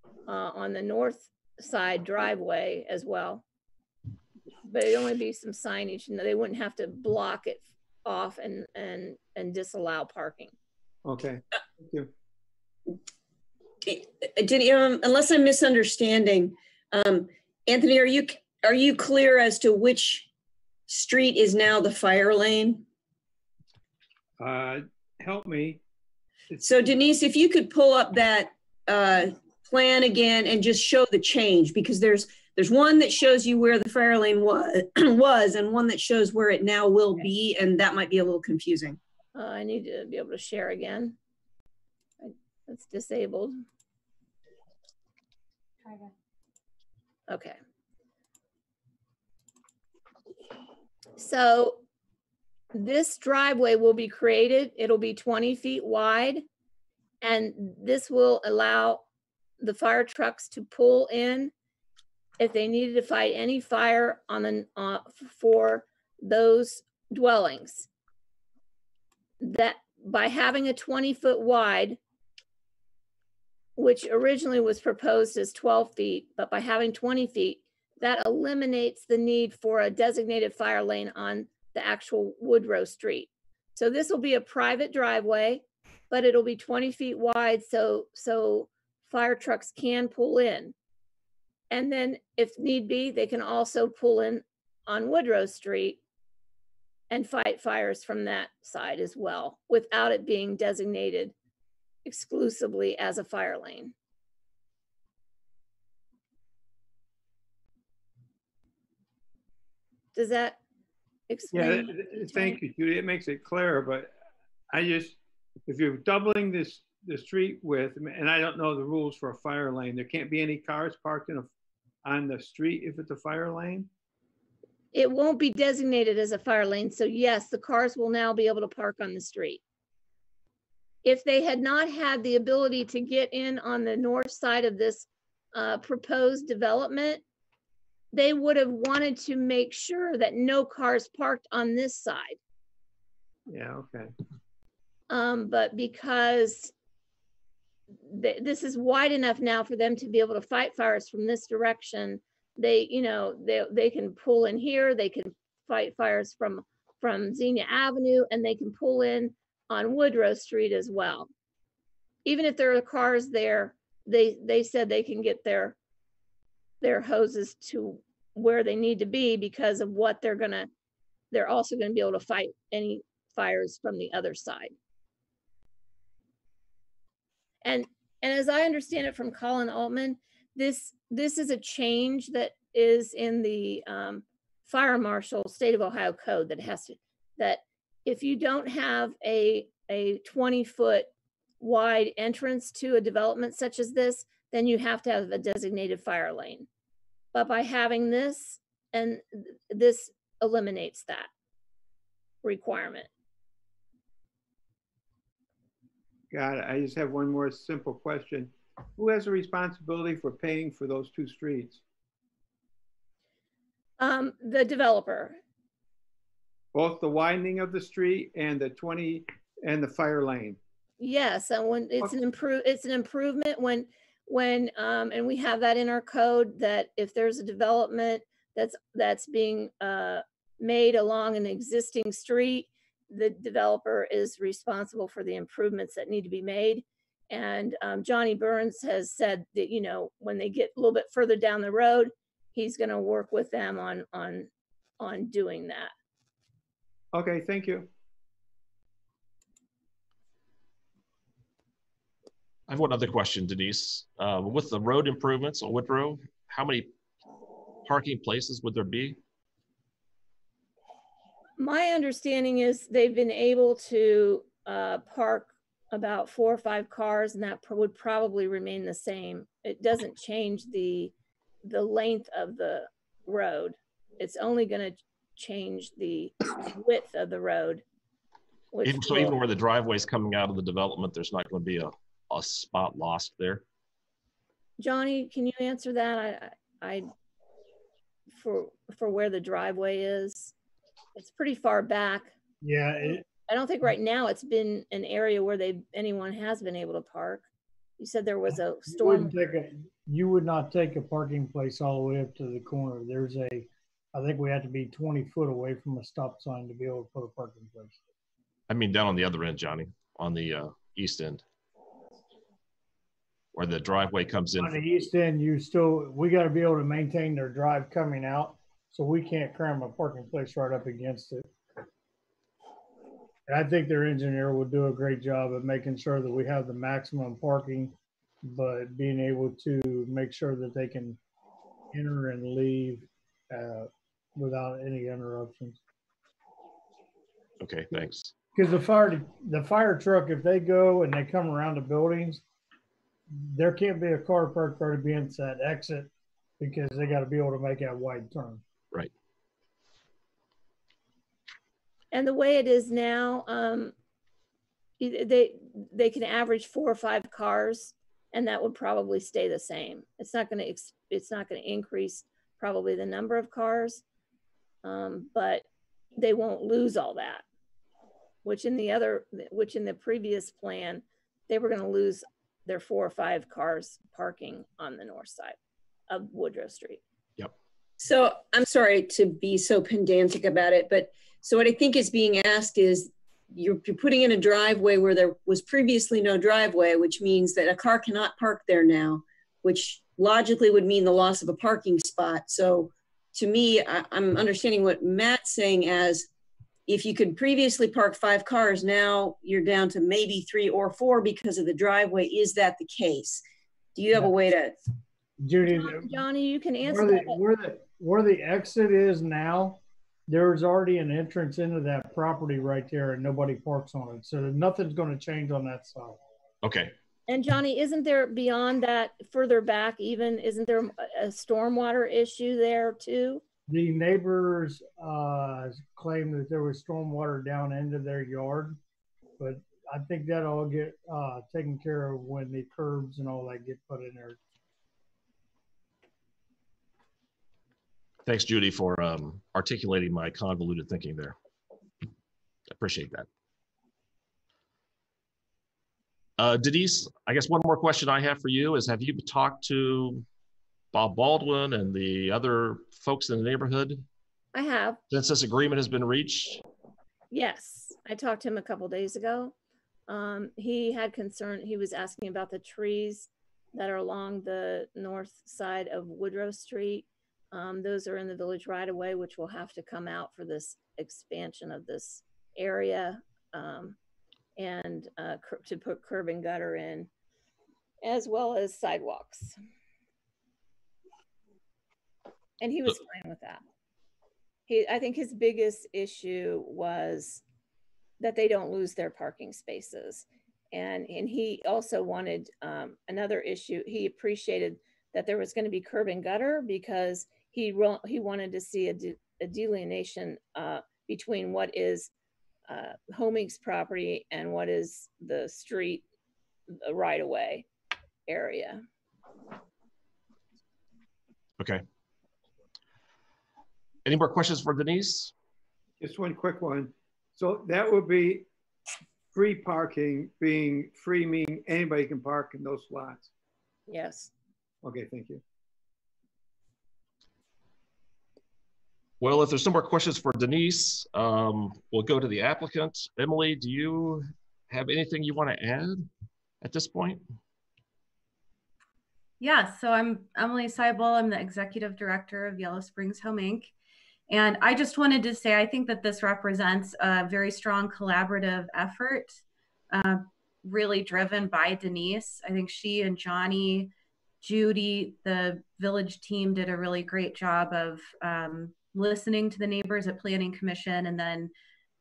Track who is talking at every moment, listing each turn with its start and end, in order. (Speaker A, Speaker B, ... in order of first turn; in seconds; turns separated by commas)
Speaker A: 0.3-3.4, Speaker A: 4.7-10.5, Speaker B: 11.1-12.1, Speaker C: 13.8-20.3, Speaker C: 20.9-22.9, Speaker B: 24.4-25.8, Speaker C: 26.6-39.0, Speaker A: 39.4-41.2, Speaker A: 42.2-43.6, Speaker A: 47.3-47.6, Speaker A: 51.2-51.8, Speaker A: 52.7-56.5, Speaker A: 57.2-59.0, Speaker A: 59.6-61.5, Speaker A: 62.4-67.9, Speaker A: 69.4-72.0, Speaker A: 73.8-90.7, Speaker A: 91.7-96.0, Speaker A: 97.1-101.3, Speaker A: 102.0-103.9, Speaker A: 110.2-110.6, Speaker A: 111.3-112.6, Speaker B: 111.5-114.1, Speaker B: 114.7-121.5, Speaker B: 122.0-123.9, Speaker A: 124.9-129.6, Speaker A: 131.0-137.2, Speaker A: 138.1-142.4, Speaker B: 143.5-144.1, Speaker A: 145.1-146.7, Speaker A: 148.0-161.3, Speaker A: 162.2-165.8, Speaker A: 166.8-170.7, Speaker A: 171.3-174.7, Speaker A: 177.6-191.1, Speaker A: 191.6-196.7, Speaker A: 197.3-201.3, Speaker A: 202.4-203.1, Speaker B: 206.3-211.8, Speaker A: 214.0-215.4, Speaker B: 216.7-220.6, Speaker A: 221.0-244.5, Speaker A: 245.0-245.9, Speaker B: 247.1-247.9, Speaker D: 252.7-256.9, Speaker D: 257.9-259.2, Speaker A: 261.6-271.1, Speaker A: 271.6-277.8, Speaker A: 278.7-279.4, Speaker D: 278.9-283.6, Speaker A: 284.8-287.1, Speaker A: 288.3-290.5, Speaker A: 291.2-292.3, Speaker E: 292.6-293.2, Speaker A: 293.3-297.4, Speaker A: 298.0-299.3, Speaker E: 298.9-308.0, Speaker D: 308.7-311.4, Speaker D: 313.5-314.8, Speaker E: 314.6-321.5, Speaker E: 323.5-331.2, Speaker E: 331.9-335.8, Speaker D: 337.6-338.3, Speaker E: 338.6-342.4, Speaker E: 343.4-348.6, Speaker A: 352.1-353.9, Speaker A: 355.0-364.0, Speaker A: 364.8-365.6, Speaker A: 366.2-367.4, Speaker A: 368.4-375.6, Speaker A: 376.1-377.0, Speaker C: 378.0-396.3, Speaker C: 396.9-403.4, Speaker C: 404.0-404.8, Speaker E: 405.4-406.2, Speaker A: 405.7-407.4, Speaker E: 406.9-416.2, Speaker D: 416.6-416.9, Speaker A: 417.3-423.4, Speaker E: 423.7-428.8, Speaker E: 429.4-434.4, Speaker D: 438.3-441.4, Speaker D: 442.7-443.3, Speaker D: 446.4-450.2, Speaker D: 450.9-454.0, Speaker A: 454.5-455.0, Speaker D: 455.1-456.6, Speaker A: 457.3-459.5, Speaker A: 460.1-474.0, Speaker A: 474.6-477.1, Speaker A: 478.0-479.6, Speaker A: 482.6-483.6, Speaker A: 484.7-487.4, Speaker A: 488.2-502.1, Speaker A: 502.7-506.1, Speaker A: 506.7-507.7, Speaker A: 508.3-508.8, Speaker D: 514.1-515.3, Speaker B: 516.0-518.5, Speaker B: 519.3-523.3, Speaker A: 523.9-524.3, Speaker B: 524.8-525.4, Speaker D: 529.2-536.1, Speaker D: 536.6-537.2, Speaker F: 539.4-543.7, Speaker F: 544.3-561.5